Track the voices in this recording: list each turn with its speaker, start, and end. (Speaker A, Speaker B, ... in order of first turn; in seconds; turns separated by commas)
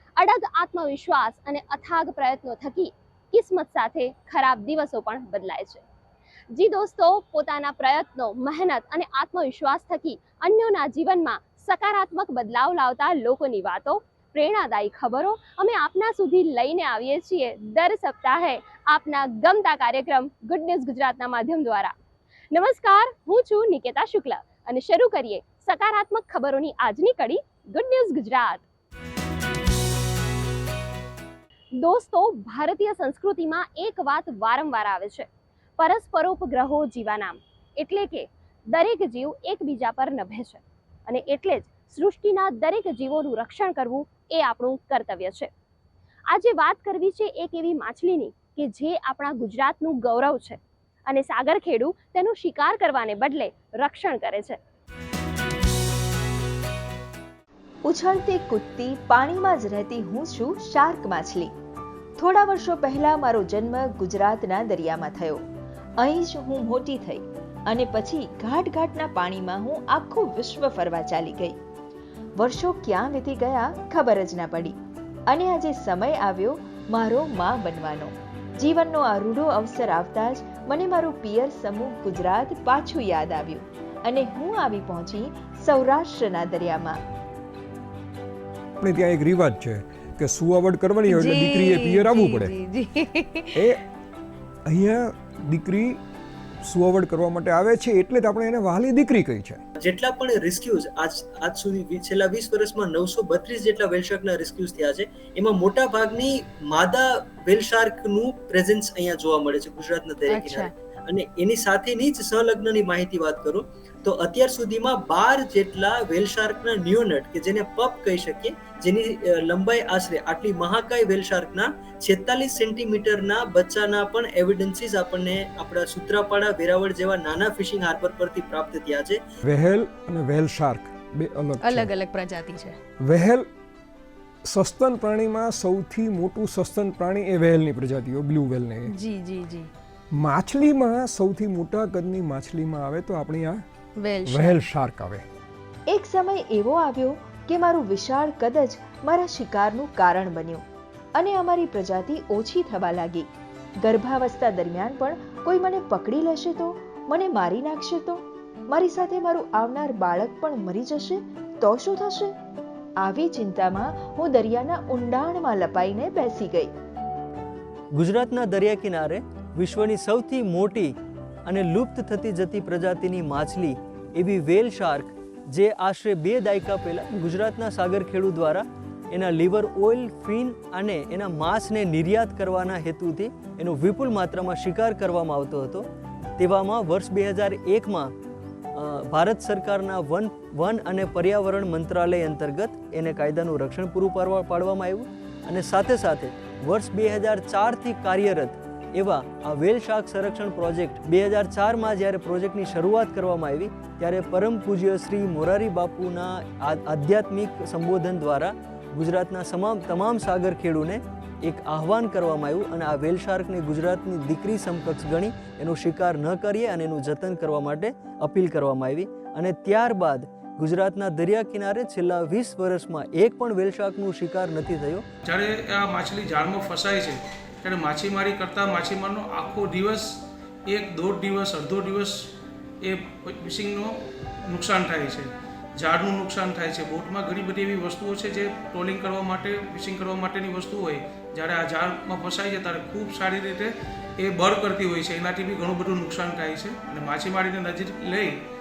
Speaker A: 0.2-5.8, Speaker A: 6.5-21.9, Speaker A: 22.5-28.6, Speaker A: 31.8-35.3, Speaker A: 35.8-45.5, Speaker A: 46.3-54.6, Speaker B: 57.9-61.5, Speaker B: 62.2-65.4, Speaker B: 66.0-71.6, Speaker B: 72.4-74.8, Speaker B: 75.3-87.0, Speaker C: 88.8-92.5, Speaker D: 91.1-93.7, Speaker C: 94.7-96.0, Speaker C: 96.6-99.6, Speaker E: 99.8-129.2, Speaker D: 110.3-110.7, Speaker C: 129.4-131.9, Speaker D: 131.6-132.8, Speaker C: 133.0-133.5, Speaker C: 134.4-138.9, Speaker D: 138.9-139.7, Speaker C: 140.1-143.6, Speaker D: 144.0-144.6, Speaker C: 144.3-145.2, Speaker B: 145.9-150.6, Speaker B: 151.2-153.3, Speaker B: 153.8-162.3, Speaker B: 163.0-166.7, Speaker F: 167.9-170.9, Speaker F: 171.5-185.9, Speaker F: 186.4-188.1, Speaker F: 188.8-225.0, Speaker G: 225.2-230.2, Speaker G: 230.7-232.3, Speaker G: 232.8-248.4